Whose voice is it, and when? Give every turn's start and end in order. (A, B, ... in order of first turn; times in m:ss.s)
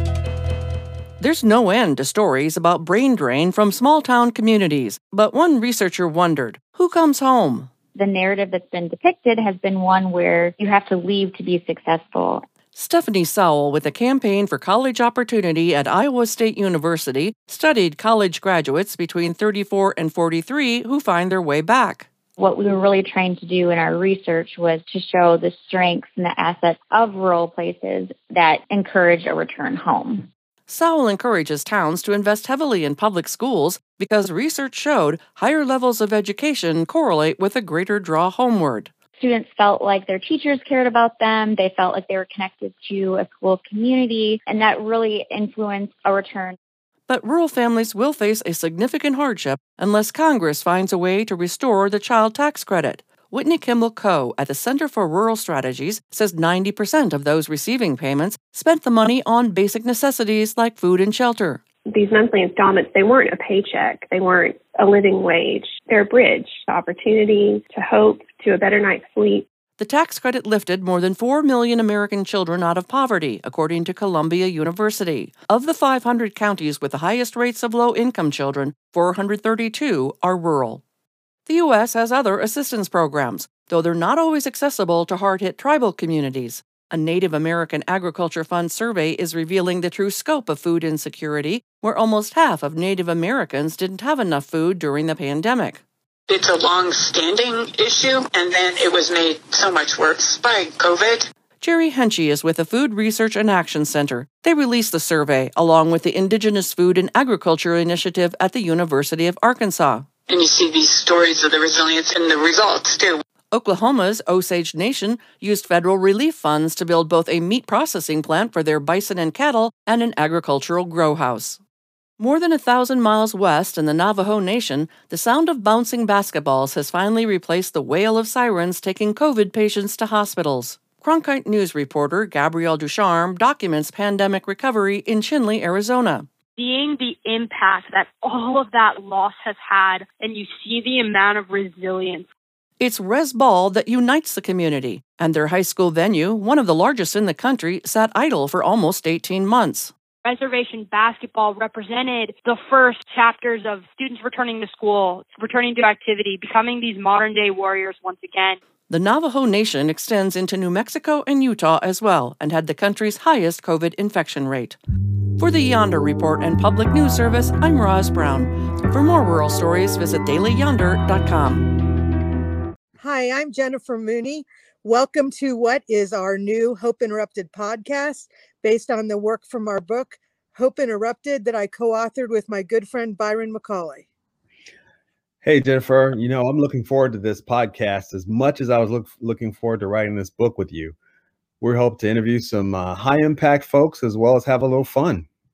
0:01.2-0:07.7 A
0:07.9-0:12.4 B
0:12.7-0:22.1 A
0:22.4-0:30.3 B
0:30.7-0:38.9 A
0:39.2-0:46.6 B
0:47.1-1:01.6 A
1:02.1-1:09.4 C
1:09.8-1:20.8 A
1:21.4-1:35.8 A
1:36.3-1:41.3 D
1:41.6-1:50.1 A
1:50.3-1:53.2 D
1:53.5-2:01.6 A
2:02.2-2:16.3 A
2:16.6-2:22.3 E
2:22.8-2:29.9 A
2:30.2-2:38.6 E
2:38.9-2:44.8 A
2:45.4-2:51.6 A
2:53.0-3:04.0 F
3:05.4-3:10.9 G
3:11.6-3:15.2 G